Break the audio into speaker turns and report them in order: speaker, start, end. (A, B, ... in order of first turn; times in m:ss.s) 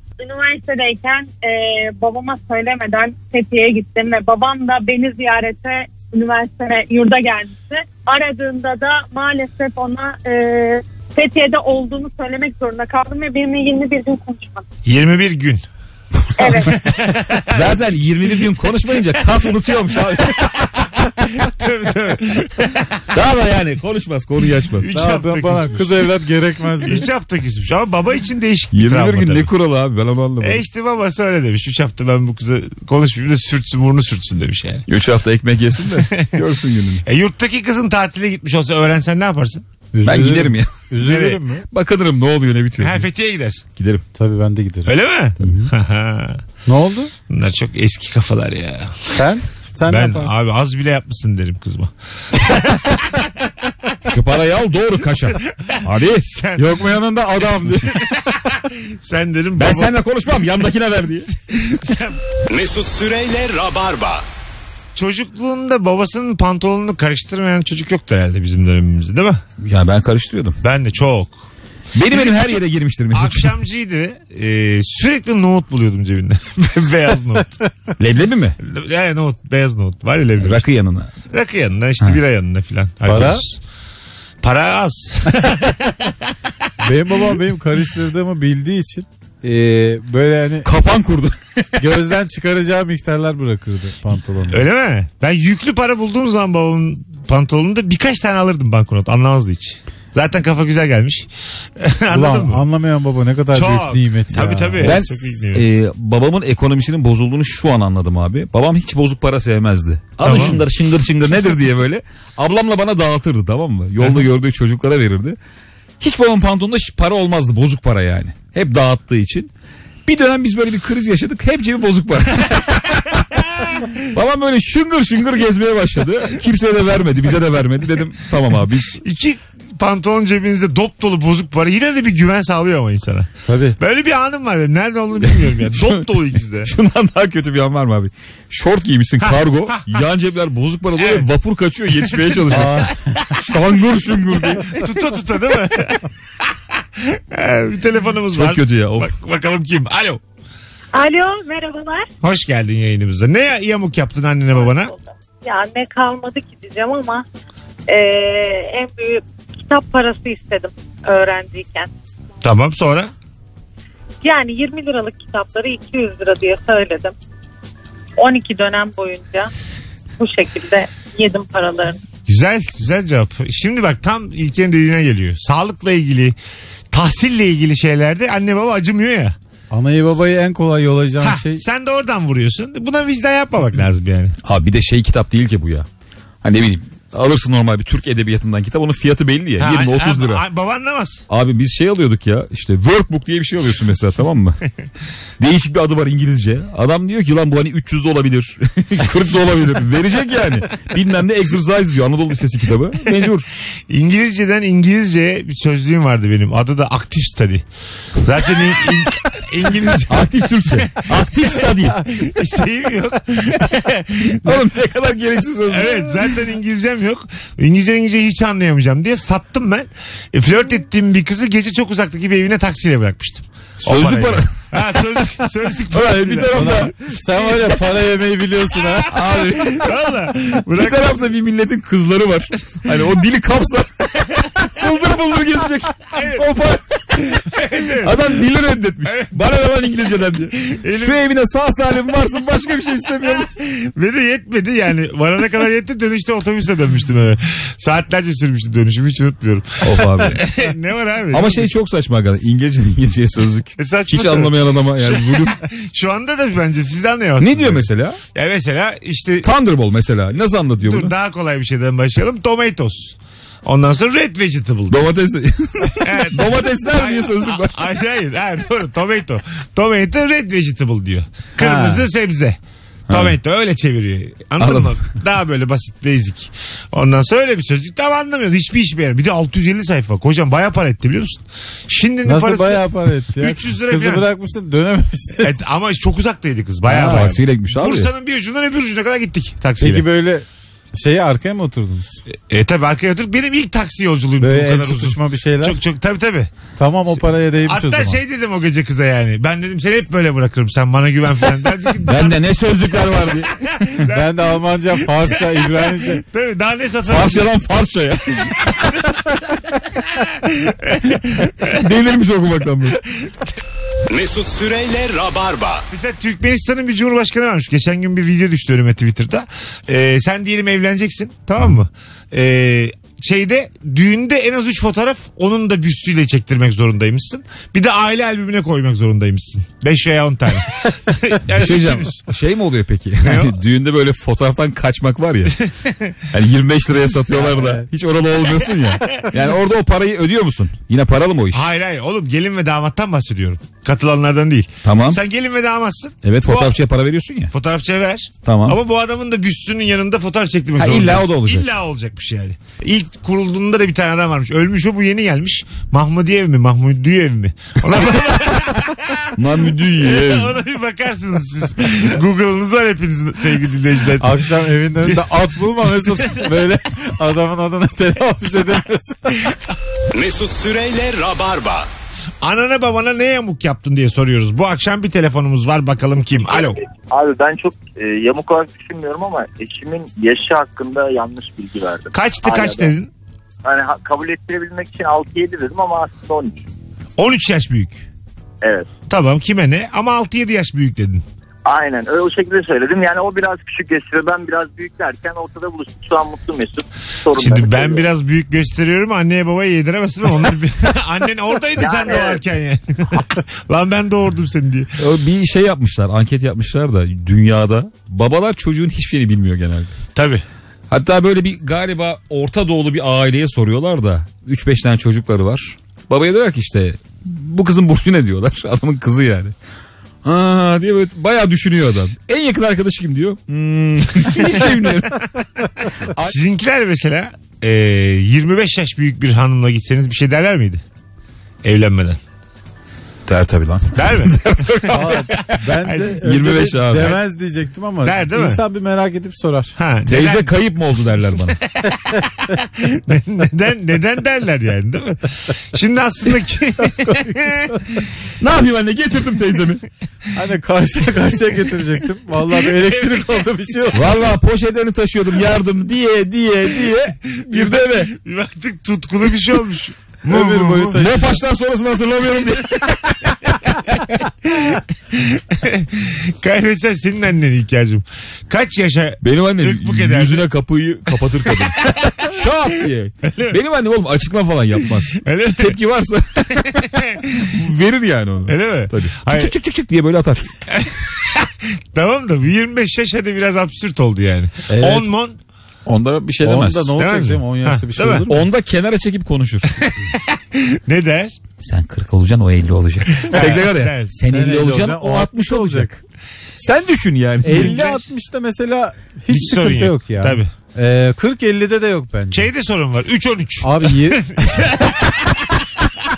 0:00.2-0:14.6 A
0:14.8-0:15.6 B
0:16.4-0:16.7 A
0:16.7-0:17.8 B
0:17.4-0:20.5 C
0:20.4-0:23.1 B
0:23.1-0:24.9 C
0:24.8-0:26.0 B
0:24.9-0:27.1 D
0:26.8-0:29.5 B
0:28.7-0:30.6 C
0:30.4-0:34.8 B
0:34.9-0:37.0 C
0:37.1-0:39.6 B
0:39.9-0:41.7 D
0:40.0-0:40.8 C
0:41.0-0:41.4 B
0:41.7-0:43.1 C
0:42.8-0:43.6 B
0:43.8-0:44.0 C
0:44.2-0:45.7 D
0:44.9-0:46.4 B
0:46.7-0:47.1 D
0:47.3-0:49.2 B
0:49.1-0:50.4 D
0:49.9-0:53.5 B
0:54.1-0:56.3 C
0:55.5-0:56.8 B
0:56.6-0:58.1 D
0:58.1-0:59.9 B
0:59.6-1:01.3 C
1:01.5-1:02.2 B
1:02.5-1:04.3 E
1:05.0-1:09.4 B
1:09.6-1:10.6 C
1:10.6-1:11.4 B
1:12.0-1:13.6 C
1:12.1-1:17.6 B
1:18.0-1:18.6 C
1:18.6-1:20.6 B
1:20.4-1:21.1 C
1:21.3-1:23.6 B
1:23.1-1:23.4 D
1:24.4-1:26.1 B
1:26.8-1:30.7 D
1:30.6-1:31.8 C
1:31.8-1:34.6 D
1:34.5-1:41.3 B
1:41.8-1:42.6 B
1:42.1-1:45.0 D
1:43.5-1:45.7 B
1:44.8-1:55.4 C
1:50.2-1:50.6 B
1:54.0-1:54.3 B
1:56.0-1:59.5 C
2:00.1-2:03.3 C
2:04.0-2:09.0 C
2:09.0-2:16.7 B
2:13.4-2:13.8 D
2:15.2-2:24.8 C
2:19.2-2:20.0 B
2:21.0-2:21.3 B
2:22.0-2:22.8 B
2:22.5-2:23.0 D
2:24.6-2:26.1 B
2:27.0-2:30.2 B
2:28.3-2:29.1 C
2:30.9-2:32.1 A
2:32.2-2:34.9 B
2:34.6-2:37.2 A
2:37.9-2:41.9 A
2:42.4-2:43.1 B
2:44.2-2:47.1 A
2:48.2-2:49.5 A
2:50.2-2:52.0 A
2:52.3-2:56.4 B
2:56.9-2:59.4 B
2:59.7-3:01.6 D
3:01.2-3:04.3 B
3:04.4-3:05.9 C
3:06.4-3:10.4 C
3:09.6-3:11.2 B
3:11.3-3:14.6 C
3:15.4-3:23.5 C
3:23.9-3:27.6 B
3:28.2-3:34.7 B
3:30.1-3:32.1 C
3:34.4-3:36.4 C
3:35.7-3:47.8 B
3:43.8-3:44.5 C
3:45.9-3:46.9 C
3:46.5-3:49.2 D
3:48.9-3:51.2 B
3:49.1-3:50.0 C
3:50.8-4:03.5 C
3:56.1-3:56.4 B
3:57.3-3:58.1 B
4:00.7-4:01.2 B
4:03.2-4:11.7 B
4:09.8-4:10.4 C
4:11.3-4:15.6 C
4:13.8-4:19.5 B
4:17.4-4:18.2 C
4:19.4-4:21.1 C
4:20.8-4:25.1 B
4:24.9-4:28.0 C
4:26.0-4:32.6 B
4:31.6-4:32.0 D
4:33.1-4:33.4 C
4:33.1-4:42.8 B
4:34.6-4:35.0 C
4:42.2-4:45.6 D
4:43.4-4:44.3 B
4:45.4-4:50.0 B
4:46.9-4:47.4 D
4:46.9-4:48.1 C
4:49.8-4:52.2 D
4:52.3-4:56.5 B
4:54.4-4:55.8 D
4:56.8-4:58.2 D
4:57.1-5:02.4 B
5:02.0-5:04.1 C
5:04.0-5:07.5 B
5:04.1-5:06.2 D
5:07.1-5:08.9 C
5:10.2-5:11.8 B
5:11.7-5:13.0 C
5:14.1-5:15.9 E
5:15.9-5:32.2 B
5:31.5-5:35.6 C
5:33.2-5:33.6 B
5:36.3-5:41.7 C
5:37.5-5:37.8 D
5:41.5-5:46.7 B
5:44.8-5:45.2 C
5:46.2-5:47.5 C
5:47.5-6:04.4 B
5:48.4-5:48.8 C
5:50.8-5:51.7 C
5:58.0-5:58.3 C
5:59.4-6:00.6 C
6:04.2-6:09.5 D
6:05.9-6:06.4 B
6:10.1-6:11.9 E
6:12.4-6:16.8 B
6:17.1-6:23.0 F
6:22.1-6:23.1 B
6:23.6-6:26.6 F
6:27.2-6:28.0 B
6:28.6-6:28.9 F
6:29.1-6:31.2 B
6:31.6-6:38.1 F
6:37.4-6:44.9 B
6:41.8-6:42.4 F
6:45.0-6:50.0 C
6:50.2-6:50.4 B
6:50.9-6:59.5 C
7:00.2-7:05.2 C
7:06.2-7:10.8 B
7:11.6-7:12.2 B
7:13.3-7:15.5 C
7:14.0-7:16.2 B
7:14.9-7:19.7 D
7:16.2-7:17.2 C
7:18.0-7:18.6 B
7:19.8-7:20.5 B
7:20.1-7:21.6 C
7:21.8-7:22.3 B
7:22.8-7:27.9 B
7:26.9-7:27.8 D
7:28.4-7:29.8 C
7:30.3-7:34.1 D
7:32.8-7:33.4 B
7:33.9-7:38.1 C
7:37.5-7:41.0 B
7:40.3-7:41.4 D
7:40.9-7:43.2 C
7:44.3-7:50.4 B
7:49.2-8:00.5 C
7:51.5-7:52.3 B
7:53.3-7:53.6 B
7:55.2-7:55.8 B
7:58.5-7:59.5 B
8:00.7-8:05.4 B
8:04.7-8:05.1 D
8:05.9-8:06.9 C
8:06.4-8:08.5 D
8:07.0-8:08.3 B
8:08.3-8:09.8 C
8:09.9-8:11.4 B
8:11.6-8:16.0 C
8:13.3-8:14.1 B
8:13.3-8:13.6 D
8:14.2-8:15.9 D
8:16.6-8:17.8 C
8:17.4-8:22.5 D
8:17.5-8:18.0 B
8:19.3-8:20.5 B
8:22.3-8:25.4 B
8:23.6-8:24.3 D